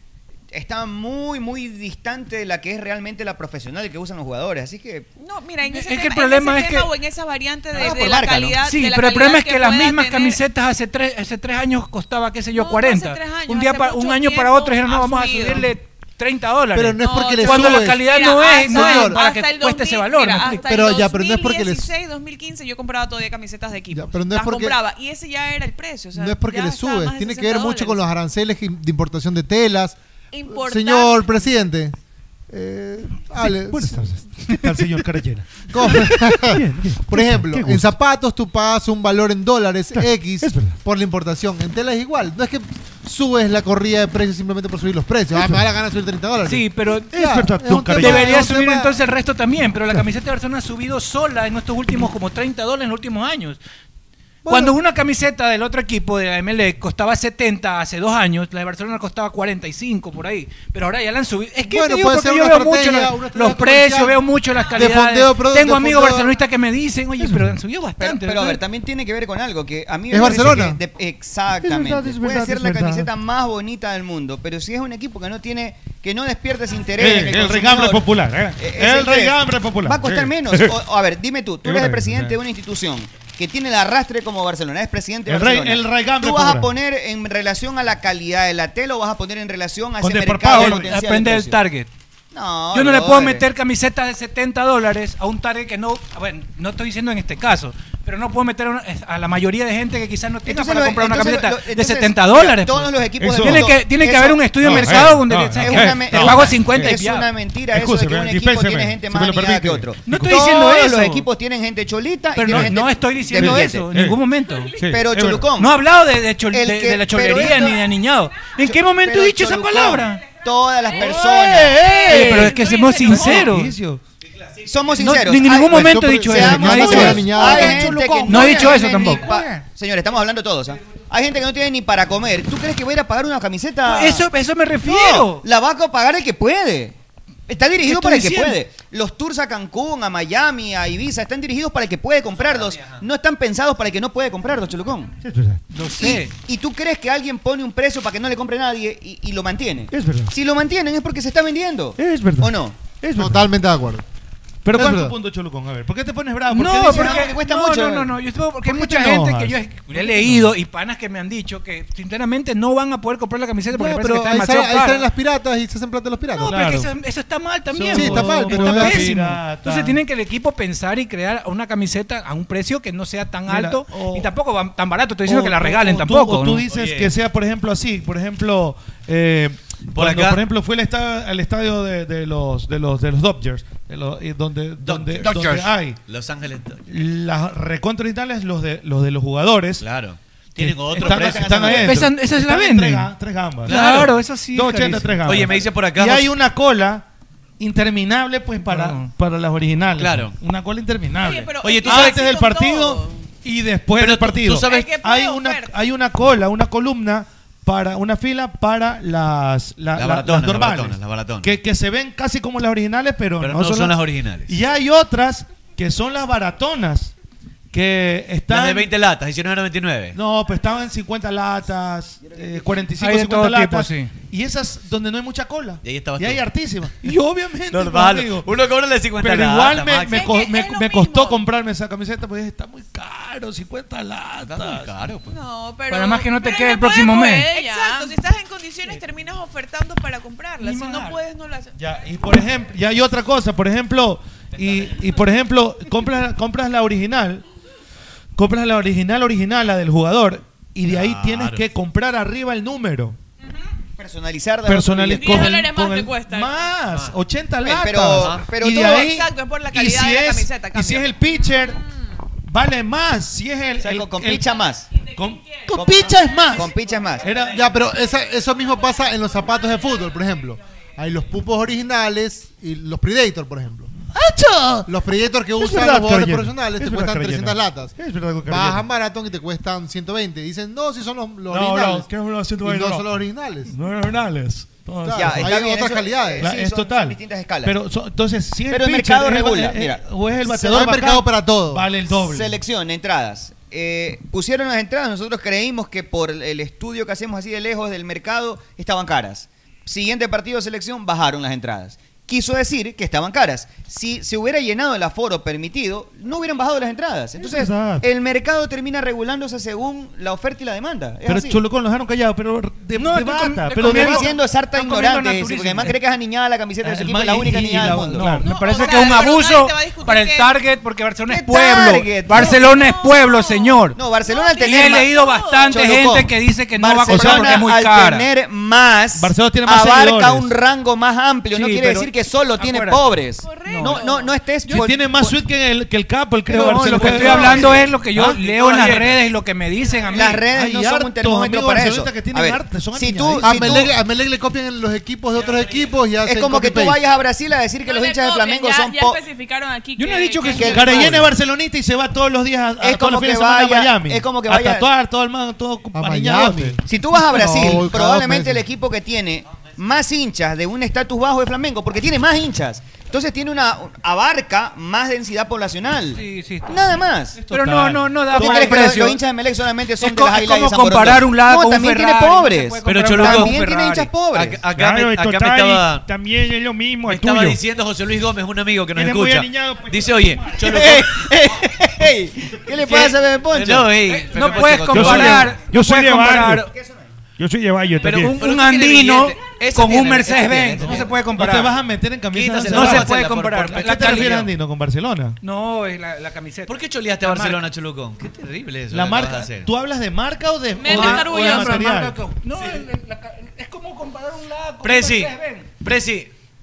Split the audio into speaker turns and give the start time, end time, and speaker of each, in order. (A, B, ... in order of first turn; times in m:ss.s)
0:00.5-0:05.1 A
0:05.2-0:10.4 B
0:05.6-0:06.9 C
0:07.7-0:08.6 A
0:08.6-0:20.7 C
0:12.5-0:15.7 B
0:16.7-0:19.2 D
0:17.0-0:28.1 B
0:20.4-0:21.9 D
0:23.9-0:24.8 D
0:26.1-0:31.9 D
0:30.3-0:31.4 B
0:32.5-0:34.1 D
0:33.4-0:37.9 E
0:35.7-0:49.0 D
0:39.9-0:40.8 E
0:45.4-0:45.6 E
0:46.4-0:47.1 C
0:47.1-0:48.4 E
0:47.9-0:53.6 C
0:54.4-0:54.8 D
0:54.4-1:08.6 C
1:01.6-1:06.4 D
1:07.2-1:07.6 E
1:08.0-1:31.6 A
1:10.1-1:10.8 D
1:10.3-1:10.6 E
1:11.6-1:13.1 E
1:17.0-1:20.8 E
1:21.6-1:22.4 E
1:25.3-1:26.7 E
1:30.0-1:30.9 E
1:30.5-1:31.9 C
1:32.3-1:33.4 A
1:32.7-1:47.3 C
1:40.4-1:53.9 A
1:43.2-1:43.8 E
1:44.6-1:46.9 E
1:47.7-1:50.4 E
1:50.0-1:51.2 C
1:52.3-1:54.7 C
1:52.4-1:52.7 E
1:53.3-1:54.2 E
1:54.4-1:55.0 F
1:54.8-1:55.5 E
1:54.9-1:55.8 A
1:55.6-2:00.2 C
1:56.5-1:57.8 A
1:58.6-2:02.5 A
2:01.0-2:04.0 E
2:01.1-2:03.7 C
2:02.7-2:03.3 F
2:02.7-2:03.1 B
2:04.3-2:05.1 G
2:04.6-2:14.3 A
2:05.0-2:09.3 C
2:05.6-2:07.9 D
2:06.4-2:09.7 E
2:13.9-2:15.4 C
2:14.8-2:16.9 A
2:17.5-2:25.1 A
2:17.8-2:18.6 C
2:22.3-2:23.0 G
2:25.2-2:25.8 E
2:25.7-2:26.3 C
2:26.0-2:32.8 A
2:29.9-2:30.3 E
2:32.0-2:33.5 E
2:33.2-2:34.0 D
2:34.6-2:37.3 E
2:34.7-2:35.2 D
2:36.5-2:45.0 C
2:36.8-2:38.1 A
2:38.6-2:40.5 E
2:43.7-2:46.5 D
2:46.4-2:56.6 C
2:46.4-2:46.9 E
2:47.7-2:50.0 E
2:47.9-2:49.1 D
2:53.5-2:54.3 E
2:55.3-3:06.0 E
2:56.7-2:57.1 G
2:59.9-3:00.4 G
3:04.8-3:06.8 G
3:06.9-3:09.8 E
3:09.8-3:11.8 G
3:10.6-3:17.0 E
3:10.9-3:12.0 A
3:11.7-3:13.1 C
3:13.6-3:15.2 C
3:13.6-3:14.2 G
3:15.2-3:16.3 G
3:17.6-3:37.1 E
3:18.6-3:19.1 C
3:20.0-3:20.4 G
3:21.2-3:23.3 B
3:21.6-3:22.2 G
3:24.0-3:24.9 G
3:24.6-3:25.7 B
3:30.0-3:31.5 G
3:33.4-3:34.6 G
3:37.7-3:38.9 E
3:38.5-3:40.2 G
3:40.1-3:48.5 E
3:42.2-3:42.9 A
3:43.0-3:44.1 C
3:45.8-3:46.4 G
3:47.7-3:50.3 G
3:49.2-3:54.9 E
3:50.1-3:51.4 B
3:50.2-3:50.8 F
3:54.4-3:55.4 G
3:55.2-4:01.7 B
3:55.9-3:57.5 C
3:56.4-3:58.1 F
4:00.6-4:01.2 C
4:01.8-4:07.4 E
4:04.6-4:05.1 G
4:08.4-4:13.2 E
4:10.9-4:11.6 G
4:14.0-4:15.6 A
4:14.6-4:21.8 E
4:15.1-4:16.7 F
4:17.6-4:19.1 A
4:18.1-4:18.4 G
4:18.8-4:22.0 B
4:22.5-4:24.4 E
4:23.8-4:24.9 A
4:25.0-4:25.7 F
4:25.1-4:26.7 E
4:25.7-4:27.3 A
4:27.2-4:27.7 E
4:27.4-4:33.9 D
4:34.1-4:34.9 E
4:34.9-4:37.9 D
4:35.6-4:38.9 E
4:38.4-4:42.1 D
4:41.5-4:43.1 E
4:42.6-4:43.7 D
4:43.7-4:45.6 E
4:45.0-4:46.5 D
4:45.1-4:47.8 A
4:46.4-4:52.6 E
4:48.7-4:50.0 A
4:50.4-4:51.9 D
4:52.1-5:11.6 A
5:07.4-5:08.0 E
5:11.3-5:14.3 E
5:12.9-5:16.0 C
5:13.8-5:18.4 A
5:16.8-5:18.5 E
5:18.1-5:24.0 C
5:18.4-5:20.6 B
5:21.3-5:22.7 A
5:22.5-5:23.5 B
5:23.1-5:25.7 F
5:23.9-5:25.1 A
5:24.3-5:25.7 B
5:24.6-5:28.3 C
5:25.7-5:35.0 A
5:27.1-5:27.6 E
5:29.2-5:30.5 E
5:31.5-5:33.0 C
5:33.4-5:34.2 B
5:33.4-5:34.3 F
5:33.7-5:34.0 C
5:34.6-5:35.3 C
5:34.7-5:38.4 E
5:36.5-5:40.4 C
5:37.1-5:37.4 G
5:37.3-5:37.8 A
5:38.4-5:39.2 G
5:40.1-5:43.9 A
5:40.5-5:43.9 E
5:43.4-5:47.0 D
5:45.3-5:45.9 G
5:46.2-5:49.2 A
5:47.8-5:51.1 F
5:50.0-5:51.2 C
5:50.5-5:51.3 A
5:50.6-5:56.8 E
5:52.8-5:54.9 A
5:55.9-5:58.6 D
5:56.8-6:07.4 A
6:06.1-6:06.7 C
6:07.4-6:09.2 C
6:07.4-6:08.9 E
6:08.3-6:14.6 A
6:10.0-6:13.8 C
6:12.8-6:16.1 G
6:14.7-6:17.6 E
6:17.1-6:21.7 G
6:18.9-6:20.9 E
6:20.6-6:23.9 A
6:22.8-6:25.5 G
6:24.0-6:26.7 C
6:24.9-6:26.7 E
6:26.7-6:27.1 A
6:27.4-6:28.4 E
6:28.0-6:31.1 G
6:28.1-6:31.8 C
6:30.9-6:35.4 E
6:32.3-6:34.5 G
6:32.7-6:34.4 C
6:35.4-6:37.6 C
6:36.7-6:39.7 G
6:38.9-6:42.2 E
6:40.8-6:41.9 F
6:40.8-6:45.7 C
6:44.8-6:46.3 G